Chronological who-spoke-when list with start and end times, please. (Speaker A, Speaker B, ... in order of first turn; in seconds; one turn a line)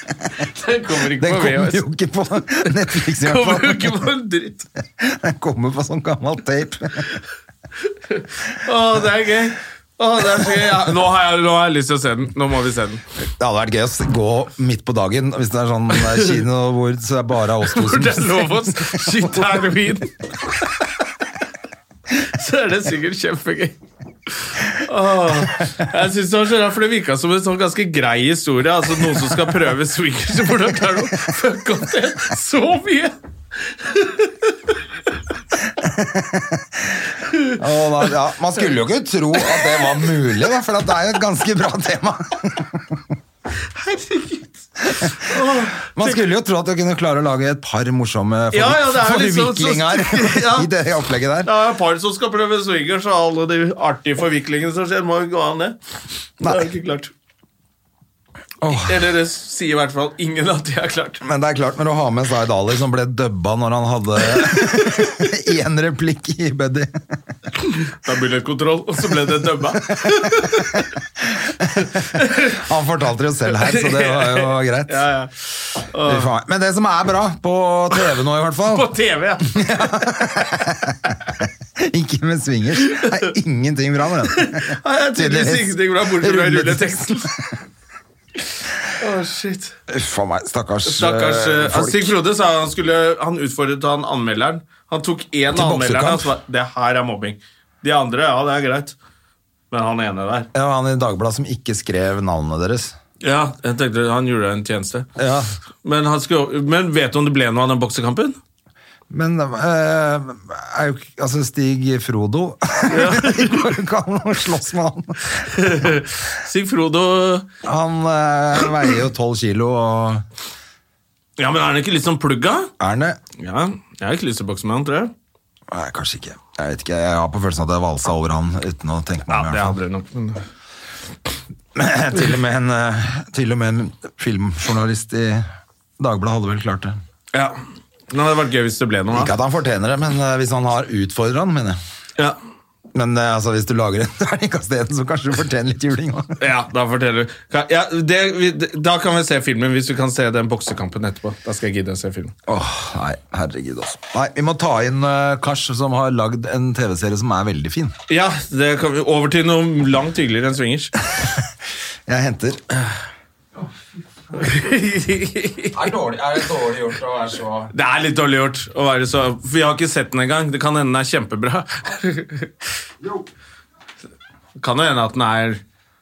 Speaker A: 0.4-1.8
Speaker B: 1.0-4.0
Speaker A: 2.9-4.7
Speaker B: 5.0-7.1
Speaker A: 8.1-13.0
Speaker B: 13.4-19.6
Speaker A: 17.6-20.1
Speaker A: 22.2-23.8
Speaker A: 24.5-33.1
Speaker A: 33.7-34.5
Speaker B: 35.8-43.0
Speaker A: 43.8-46.1
Speaker B: 44.9-51.5
Speaker A: 48.5-50.7
Speaker A: 51.4-55.8
Speaker B: 56.4-56.7
Speaker A: 56.5-57.1
Speaker B: 58.6-59.0
Speaker A: 58.7-61.2
Speaker B: 61.2-67.0
Speaker A: 67.8-70.9
Speaker B: 70.0-70.6
Speaker B: 71.2-75.0
Speaker A: 71.8-72.6
Speaker A: 73.6-76.3
Speaker B: 76.0-78.9
Speaker A: 78.7-79.8
Speaker B: 79.4-87.5
Speaker A: 82.8-83.3
Speaker A: 84.3-87.3
Speaker A: 89.0-89.7
Speaker B: 89.9-92.2
Speaker A: 90.8-99.0
Speaker B: 95.5-96.3
Speaker A: 99.7-100.5
Speaker B: 100.5-103.0
Speaker A: 103.2-105.1
Speaker B: 105.2-105.5
Speaker A: 105.8-108.4
Speaker B: 109.1-115.5
Speaker A: 112.9-113.5
Speaker A: 115.5-117.5
Speaker B: 117.6-120.2
Speaker A: 121.4-122.7
Speaker B: 122.8-123.2
Speaker A: 123.4-125.1
Speaker B: 125.7-129.8
Speaker A: 129.3-130.4
Speaker B: 131.8-135.5
Speaker B: 136.0-137.0
Speaker A: 138.1-139.3
Speaker B: 139.1-141.8
Speaker B: 142.9-146.4
Speaker A: 146.4-152.3
Speaker B: 152.5-157.9
Speaker A: 158.1-160.9
Speaker B: 162.1-162.6
Speaker A: 164.3-165.8
Speaker B: 165.7-167.7
Speaker A: 167.7-172.5
Speaker A: 174.6-175.6